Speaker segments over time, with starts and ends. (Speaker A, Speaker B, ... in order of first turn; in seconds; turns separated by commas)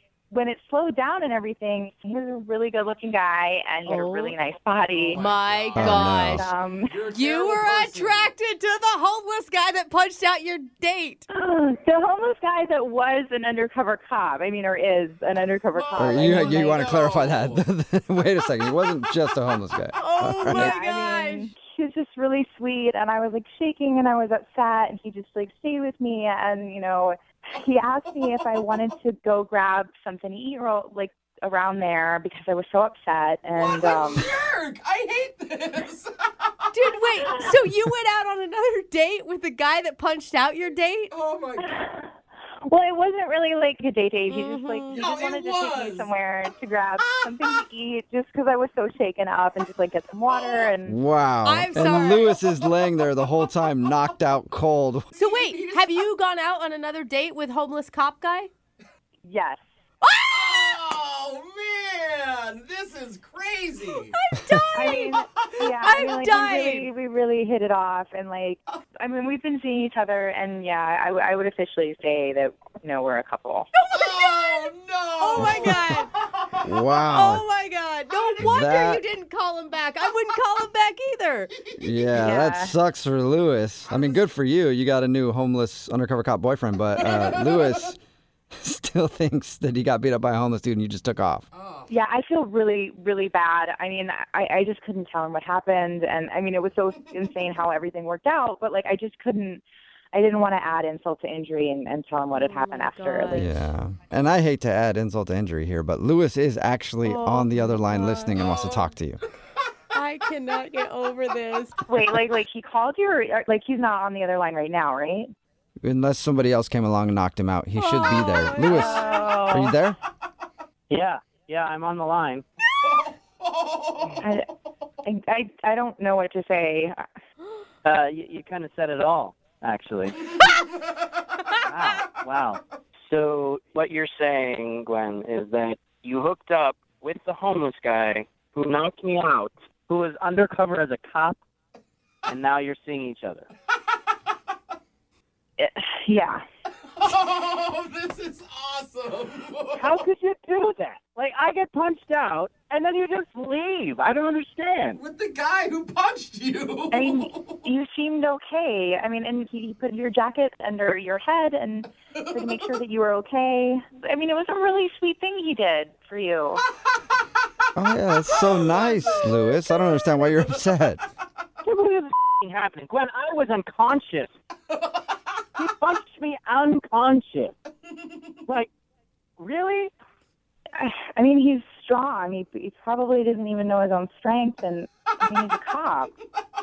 Speaker A: 0.3-5.2, Speaker B: 3.9-4.3, Speaker C: 4.9-6.2, Speaker B: 5.1-6.5, Speaker D: 5.7-6.5, Speaker A: 6.3-7.0, Speaker C: 6.8-8.3, Speaker B: 7.1-11.3, Speaker A: 11.3-16.9, Speaker C: 15.7-17.6, Speaker D: 16.0-20.7, Speaker B: 19.9-21.5, Speaker A: 20.4-34.3, Speaker C: 33.6-36.7, Speaker B: 36.7-41.1, Speaker C: 41.1-41.8, Speaker A: 41.7-42.1, Speaker A: 42.6-51.0, Speaker B: 44.3-45.0, Speaker C: 44.9-46.1, Speaker C: 47.0-47.5, Speaker C: 50.3-50.7, Speaker D: 50.8-55.1, Speaker B: 51.4-52.3, Speaker B: 55.1-58.5, Speaker C: 55.1-55.9, Speaker A: 59.2-59.6, Speaker B: 60.0-60.4, Speaker C: 60.3-64.2, Speaker B: 64.1-65.1, Speaker A: 64.7-73.7, Speaker C: 65.4-65.7, Speaker B: 65.8-66.9, Speaker B: 73.8-74.7, Speaker C: 73.9-76.4, Speaker B: 75.2-76.1, Speaker D: 75.3-75.8, Speaker D: 76.6-77.4, Speaker B: 77.1-81.5, Speaker D: 78.4-79.0, Speaker D: 81.8-88.0, Speaker A: 82.1-82.7, Speaker D: 88.5-91.5, Speaker C: 91.5-91.9, Speaker A: 91.9-99.6, Speaker A: 100.1-103.5, Speaker B: 102.3-103.7, Speaker D: 103.3-109.2, Speaker B: 107.0-108.4, Speaker C: 108.5-108.8, Speaker B: 109.9-111.8, Speaker A: 111.9-115.3, Speaker D: 115.8-120.0, Speaker B: 117.7-119.2, Speaker A: 118.6-119.7, Speaker E: 120.9-122.4, Speaker C: 122.8-124.2, Speaker A: 124.2-124.5, Speaker A: 125.0-127.0, Speaker E: 127.8-130.2, Speaker E: 131.6-141.4, Speaker E: 142.2-143.5, Speaker A: 145.6-146.4, Speaker C: 146.9-150.0, Speaker E: 149.8-155.0, Speaker C: 155.0-157.6, Speaker A: 156.9-166.6, Speaker C: 162.1-162.6, Speaker D: 167.8-171.0, Speaker C: 168.3-170.6, Speaker E: 171.6-174.3, Speaker C: 174.7-175.1, Speaker E: 175.6-177.5, Speaker E: 179.4-179.9, Speaker A: 180.7-186.1